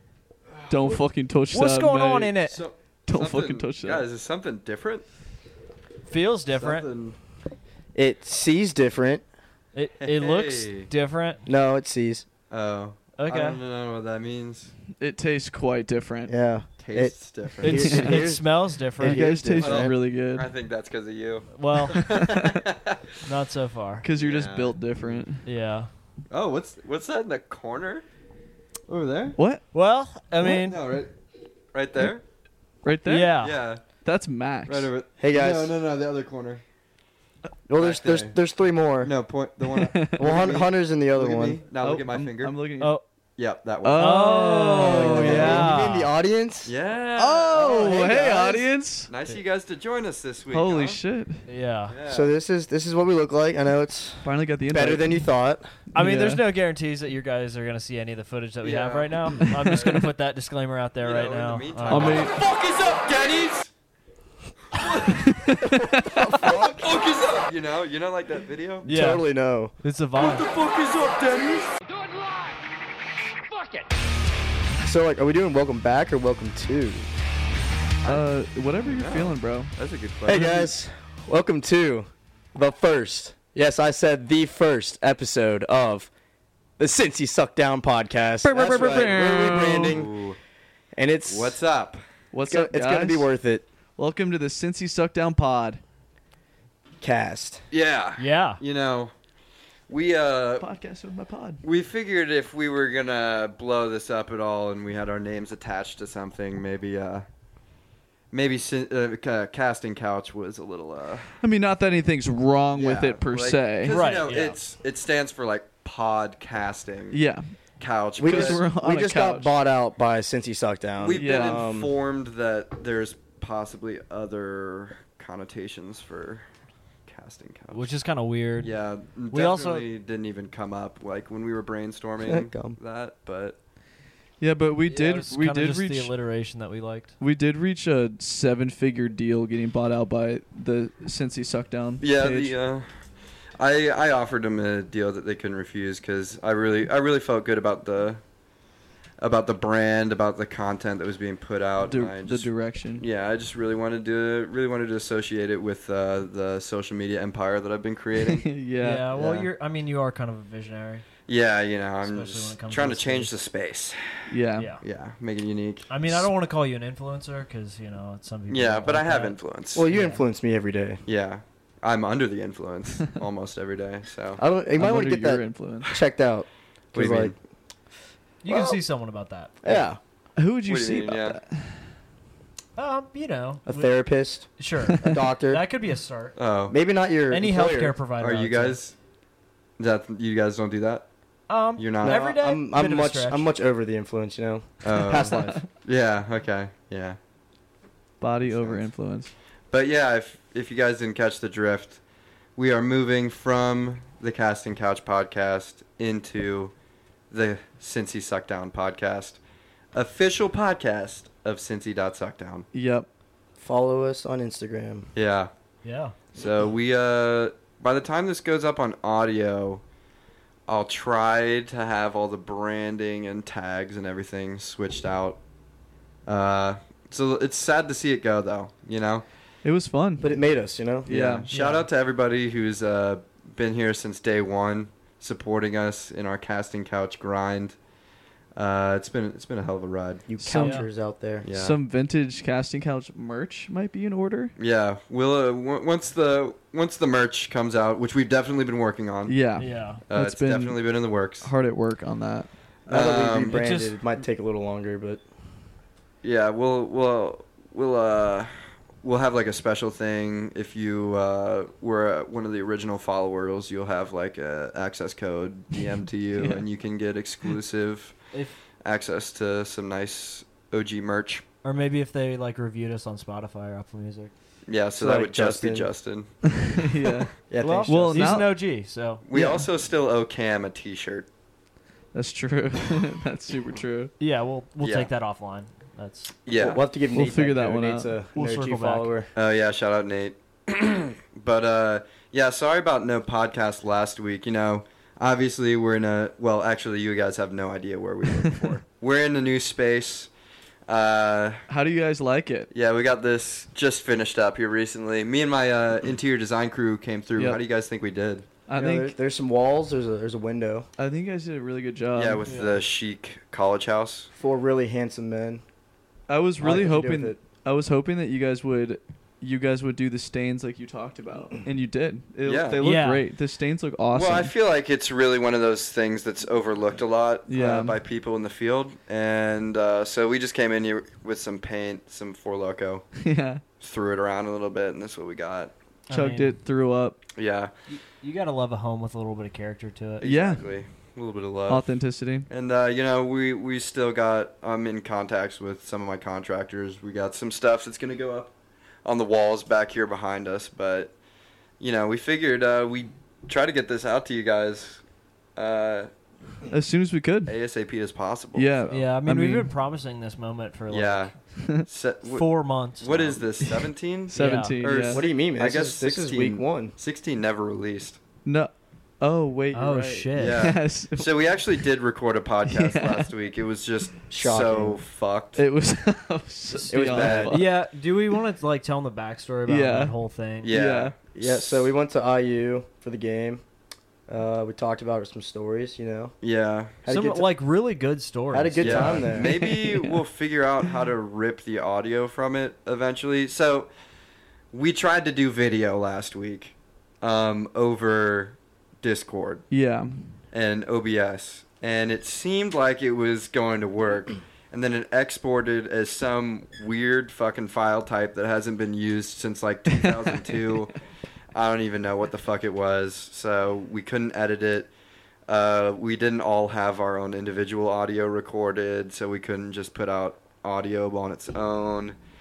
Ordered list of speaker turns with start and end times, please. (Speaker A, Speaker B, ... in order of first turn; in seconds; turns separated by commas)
Speaker A: 0.5-1.0, Speaker B: 0.7-2.3, Speaker C: 1.5-2.6, Speaker A: 2.5-5.0, Speaker B: 3.1-4.0, Speaker C: 6.1-6.9, Speaker A: 6.5-7.2, Speaker D: 8.0-9.2, Speaker C: 9.7-11.4, Speaker A: 10.0-10.9, Speaker D: 11.5-12.3, Speaker A: 12.5-14.7, Speaker C: 13.2-13.6, Speaker B: 15.0-16.3, Speaker D: 16.3-20.0, Speaker A: 16.8-17.9, Speaker C: 17.6-19.4, Speaker B: 17.7-18.3, Speaker B: 19.0-20.5, Speaker A: 19.6-23.2, Speaker C: 21.5-22.1, Speaker B: 22.2-22.6, Speaker C: 23.2-24.1, Speaker B: 24.0-25.4, Speaker A: 24.2-25.2, Speaker C: 25.4-25.9, Speaker A: 26.3-28.1, Speaker A: 28.9-29.4, Speaker B: 29.4-29.6, Speaker C: 29.7-30.8, Speaker A: 30.4-31.1, Speaker A: 31.7-32.2, Speaker B: 32.8-33.5, Speaker C: 33.1-33.6, Speaker A: 33.4-33.8, Speaker B: 34.0-34.9, Speaker A: 34.7-36.6, Speaker D: 35.2-35.7, Speaker D: 37.7-39.1, Speaker A: 37.8-38.4, Speaker A: 39.0-42.6, Speaker B: 39.7-40.3, Speaker D: 40.2-41.6, Speaker B: 41.8-43.0, Speaker A: 43.4-45.7, Speaker B: 43.8-45.7, Speaker C: 44.0-46.1, Speaker D: 44.7-46.7, Speaker A: 46.6-51.0, Speaker B: 47.2-49.1, Speaker D: 47.6-48.4, Speaker B: 50.5-51.5, Speaker C: 51.5-52.0, Speaker A: 51.9-52.3, Speaker D: 52.1-55.7, Speaker B: 54.2-55.3, Speaker C: 55.9-62.3, Speaker B: 56.0-56.4, Speaker A: 58.6-59.5, Speaker B: 59.6-60.0, Speaker A: 61.0-63.7, Speaker B: 61.9-62.3, Speaker A: 64.7-65.3, Speaker B: 65.2-66.5, Speaker D: 66.2-66.8, Speaker A: 66.3-68.9, Speaker D: 68.8-69.7, Speaker C: 68.9-69.2, Speaker C: 69.8-70.5, Speaker A: 70.2-71.8, Speaker D: 74.8-77.1, Speaker A: 78.0-78.3, Speaker B: 78.0-79.7, Speaker A: 78.8-80.5, Speaker D: 80.3-86.1, Speaker B: 80.3-80.7, Speaker D: 86.8-90.2, Speaker B: 88.4-90.0, Speaker A: 89.9-90.4, Speaker D: 91.0-91.6, Speaker A: 91.2-92.0, Speaker B: 92.3-93.3, Speaker D: 92.5-93.7, Speaker B: 94.0-95.8, Speaker D: 97.0-97.6, Speaker A: 97.7-99.1, Speaker C: 98.2-98.6, Speaker A: 99.9-100.7, Speaker B: 100.6-101.6, Speaker A: 101.6-107.2, Speaker A: 108.3-111.4, Speaker B: 111.4-114.0, Speaker A: 112.7-117.2, Speaker C: 113.8-114.6, Speaker B: 117.1-117.6, Speaker A: 117.8-118.6, Speaker D: 118.2-121.9, Speaker B: 118.2-119.5, Speaker A: 121.0-126.5, Speaker B: 121.1-121.6, Speaker A: 127.1-127.9, Speaker C: 127.7-128.7, Speaker A: 128.6-133.6, Speaker C: 129.3-129.9, Speaker D: 132.2-132.8, Speaker B: 134.4-136.1, Speaker C: 134.9-137.2, Speaker B: 137.2-142.6, Speaker A: 142.0-142.9, Speaker A: 143.6-148.2, Speaker A: 149.2-158.5, Speaker B: 151.8-153.1, Speaker B: 158.3-159.1, Speaker C: 158.8-161.1, Speaker A: 159.2-159.5, Speaker A: 161.3-166.3, Speaker C: 162.0-163.3, Speaker B: 164.3-164.7, Speaker C: 164.6-164.8, Speaker C: 165.9-169.4, Speaker A: 168.5-169.8, Speaker D: 169.8-171.0, Speaker C: 169.9-170.2, Speaker A: 171.1-174.4, Speaker D: 174.4-177.3, Speaker B: 174.8-175.9, Speaker A: 176.9-177.4, Speaker C: 178.4-179.8, Speaker A: 178.5-178.8, Speaker D: 179.6-180.0, Speaker B: 180.4-181.9, Speaker A: 180.7-181.4, Speaker C: 182.8-183.9, Speaker D: 183.7-185.6, Speaker C: 184.6-186.4, Speaker A: 186.4-186.7, Speaker D: 186.7-187.9, Speaker C: 187.3-188.8, Speaker A: 188.2-188.9, Speaker A: 189.8-191.1, Speaker C: 191.5-193.5, Speaker A: 191.8-192.2, Speaker D: 192.0-195.6, Speaker A: 194.8-197.2, Speaker B: 198.2-199.3, Speaker A: 198.4-198.9, Speaker A: 199.7-202.0, Speaker A: 202.6-206.7, Speaker A: 207.3-209.4, Speaker A: 209.9-212.7, Speaker B: 212.7-213.1, Speaker D: 213.6-215.1, Speaker A: 215.2-215.5, Speaker C: 215.8-216.2, Speaker A: 216.3-219.8, Speaker A: 220.7-225.4, Speaker A: 226.3-229.2, Speaker B: 229.6-230.3, Speaker D: 230.2-231.1, Speaker B: 231.1-231.5, Speaker A: 231.1-237.8, Speaker C: 231.5-231.9, Speaker A: 238.6-240.3, Speaker D: 240.3-241.5, Speaker B: 240.4-240.9, Speaker C: 240.6-240.9, Speaker A: 241.4-241.8, Speaker B: 241.5-244.5, Speaker A: 244.6-249.4, Speaker B: 249.3-252.5, Speaker C: 249.6-250.0, Speaker A: 250.1-251.5, Speaker D: 252.9-255.2, Speaker A: 252.9-253.6, Speaker C: 253.5-254.0, Speaker A: 256.2-258.5, Speaker A: 259.0-268.1, Speaker B: 266.4-266.6, Speaker A: 268.8-271.4, Speaker C: 271.6-274.3, Speaker A: 274.7-276.3, Speaker D: 275.0-275.9, Speaker B: 276.6-277.3, Speaker D: 277.5-278.3, Speaker C: 277.6-279.2, Speaker B: 277.9-278.6, Speaker A: 279.3-281.3, Speaker B: 279.3-279.7, Speaker B: 282.1-284.1, Speaker C: 284.2-286.4, Speaker A: 284.8-285.1, Speaker A: 286.4-286.8, Speaker D: 286.5-289.3, Speaker B: 287.1-288.2, Speaker C: 288.4-289.1, Speaker A: 289.4-300.3, Speaker A: 300.9-301.6, Speaker B: 301.7-302.7, Speaker A: 302.7-308.5, Speaker B: 308.7-309.2, Speaker D: 308.8-310.9, Speaker B: 311.0-312.4, Speaker A: 312.1-314.3, Speaker C: 312.4-312.8, Speaker D: 314.3-315.6, Speaker B: 316.3-324.5, Speaker D: 316.6-317.4, Speaker A: 322.4-322.8, Speaker C: 322.8-323.3, Speaker A: 324.1-333.1, Speaker B: 327.5-328.0, Speaker B: 333.2-333.6, Speaker A: 333.8-335.7, Speaker C: 336.1-336.6, Speaker B: 336.1-337.2, Speaker A: 337.4-337.7, Speaker C: 337.9-340.3, Speaker A: 340.2-341.9, Speaker B: 340.2-340.6, Speaker B: 341.7-342.5, Speaker A: 342.5-348.5, Speaker A: 349.1-351.1, Speaker A: 351.8-355.0, Speaker A: 355.6-356.1, Speaker B: 356.7-357.6, Speaker A: 357.5-358.9, Speaker B: 358.5-359.7, Speaker C: 358.9-361.3, Speaker A: 360.9-368.2, Speaker C: 362.3-363.4, Speaker B: 363.6-365.2, Speaker C: 364.4-364.8, Speaker D: 365.1-366.9, Speaker B: 368.4-371.3, Speaker C: 369.7-370.7, Speaker A: 370.4-375.6, Speaker B: 372.7-373.3, Speaker D: 374.3-375.0, Speaker B: 375.6-377.8, Speaker D: 376.9-377.6, Speaker A: 377.0-377.6, Speaker C: 377.5-380.7, Speaker B: 379.7-380.1, Speaker A: 380.6-381.9, Speaker B: 380.7-381.1, Speaker D: 381.4-383.6, Speaker D: 384.3-386.3, Speaker A: 386.4-387.0, Speaker D: 387.1-387.5, Speaker C: 387.1-389.3, Speaker D: 388.5-389.5, Speaker A: 388.8-393.9, Speaker B: 389.3-390.2, Speaker A: 394.7-399.6, Speaker B: 399.7-400.4, Speaker A: 400.5-410.9, Speaker B: 409.9-410.9, Speaker A: 411.5-414.9, Speaker A: 415.5-422.2